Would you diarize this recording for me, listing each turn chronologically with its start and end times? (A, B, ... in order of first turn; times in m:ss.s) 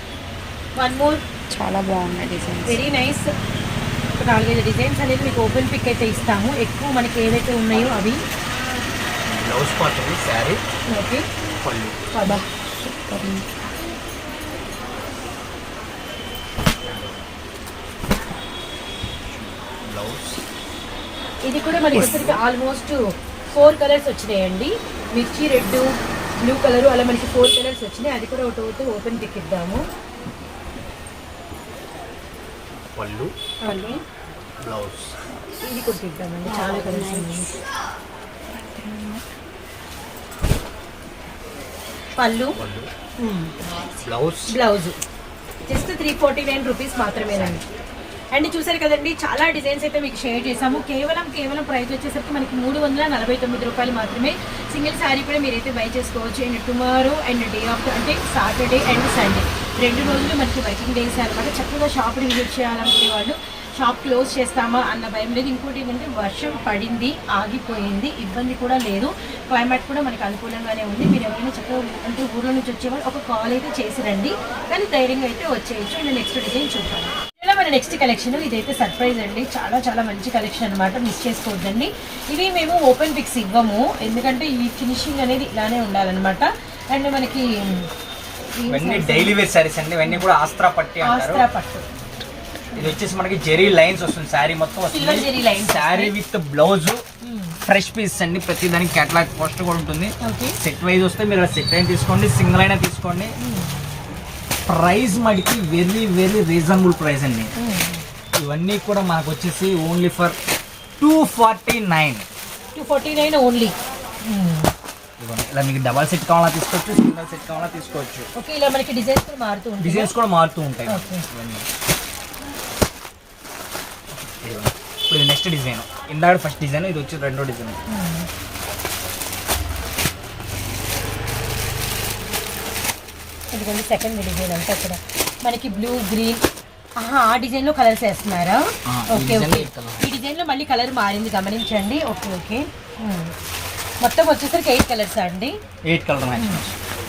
0:00.8-0:01.2 A
0:01.5-0:02.8 B
0:02.7-0:03.3 A
0:04.2-0:08.2 A
0:09.3-0:10.6 C
0:10.9-0:11.2 A
0:11.6-0:12.0 C
0:12.1-0:12.4 A
0:12.2-0:13.4 B
0:16.9-0:17.1 C
0:19.3-0:20.4 C
0:21.5-0:29.8 A
0:21.9-0:22.4 C
0:33.0-0:33.3 C
0:33.6-0:34.0 A
0:34.6-0:35.2 C
0:35.6-0:37.5 A
0:36.6-0:37.0 B
0:38.6-0:39.2 B
0:42.2-0:42.6 A
0:42.6-0:42.9 C
0:43.2-0:43.5 A
0:44.0-0:44.6 C
0:44.5-0:45.0 A
0:45.7-0:47.6 A
0:47.3-0:47.6 C
0:48.3-1:27.9 A
1:28.6-1:29.4 A
1:28.7-1:31.5 C
1:31.0-1:31.8 A
1:32.8-1:37.0 C
1:34.9-1:36.1 A
1:37.2-1:37.6 A
1:37.7-1:43.3 C
1:40.2-1:40.6 A
1:43.4-1:43.7 A
1:44.7-1:47.5 C
1:47.6-1:48.0 A
1:48.4-1:50.4 C
1:51.0-1:52.3 C
1:52.8-1:53.7 A
1:54.2-1:54.7 A
1:55.2-1:58.3 C
1:58.4-2:00.1 A
1:59.8-2:01.7 C
2:00.9-2:01.2 A
2:04.1-2:07.8 C
2:07.9-2:08.3 A
2:13.5-2:16.4 A
2:17.0-2:23.3 A
2:18.9-2:20.1 C
2:24.0-2:25.6 A
2:25.9-2:26.8 C
2:26.4-2:26.6 A